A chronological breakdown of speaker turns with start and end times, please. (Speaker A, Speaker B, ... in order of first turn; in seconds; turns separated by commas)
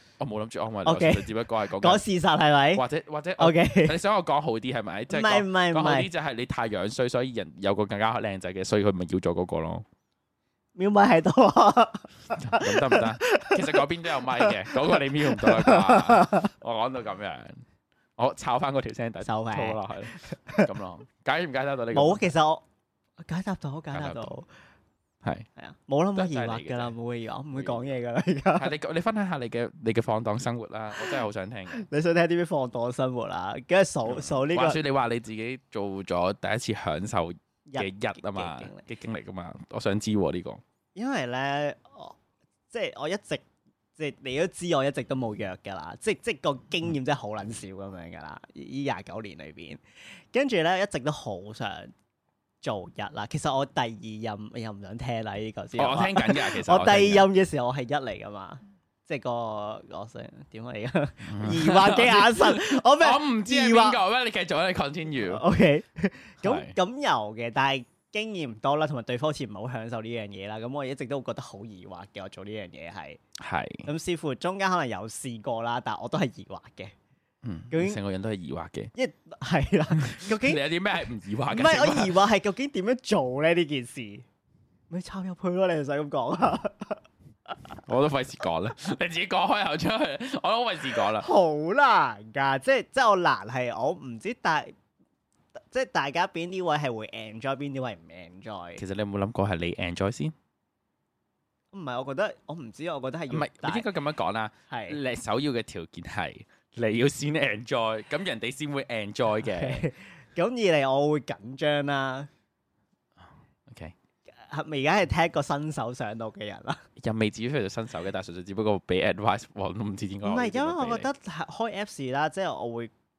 Speaker A: 0.2-2.0, Speaker B: 0.8-2.9, Speaker A: 2.7-9.8, Speaker B: 3.4-4.0, Speaker B: 5.1-6.1, Speaker B: 10.8-13.8, Speaker A: 12.3-17.6, Speaker B: 14.4-16.5, Speaker A: 18.2-22.3, Speaker B: 19.2-20.7, Speaker B: 21.9-22.6, Speaker B: 23.2-24.5, Speaker A: 23.9-24.3, Speaker A: 25.2-25.5, Speaker B: 25.6-28.7, Speaker A: 26.1-26.9, Speaker A: 27.5-27.9, Speaker A: 28.6-31.9, Speaker B: 31.7-34.8, Speaker A: 34.0-40.6, Speaker B: 37.7-38.9, Speaker B: 41.0-42.1, Speaker B: 42.7-43.4, Speaker B: 44.0-49.8, Speaker B: 50.3-51.9, Speaker B: 52.6-64.0, Speaker A: 55.7-57.3, Speaker A: 61.2-65.4, Speaker B: 65.2-73.2, Speaker A: 66.4-66.8, Speaker A: 73.4-73.9, Speaker B: 73.8-76.9, Speaker A: 77.4-78.9, Speaker B: 77.7-78.0, Speaker B: 78.9-80.6, Speaker A: 80.0-82.1, Speaker B: 81.5-84.2, Speaker B: 84.9-87.0, Speaker A: 87.8-91.3, Speaker B: 91.2-94.7, Speaker B: 95.5-98.8, Speaker A: 98.8-100.3, Speaker B: 101.7-103.9, Speaker A: 103.3-109.9, Speaker B: 104.7-105.0, Speaker B: 109.4-112.3, Speaker A: 113.2-113.9, Speaker B: 114.5-116.8, Speaker A: 117.0-121.1, Speaker B: 120.2-122.9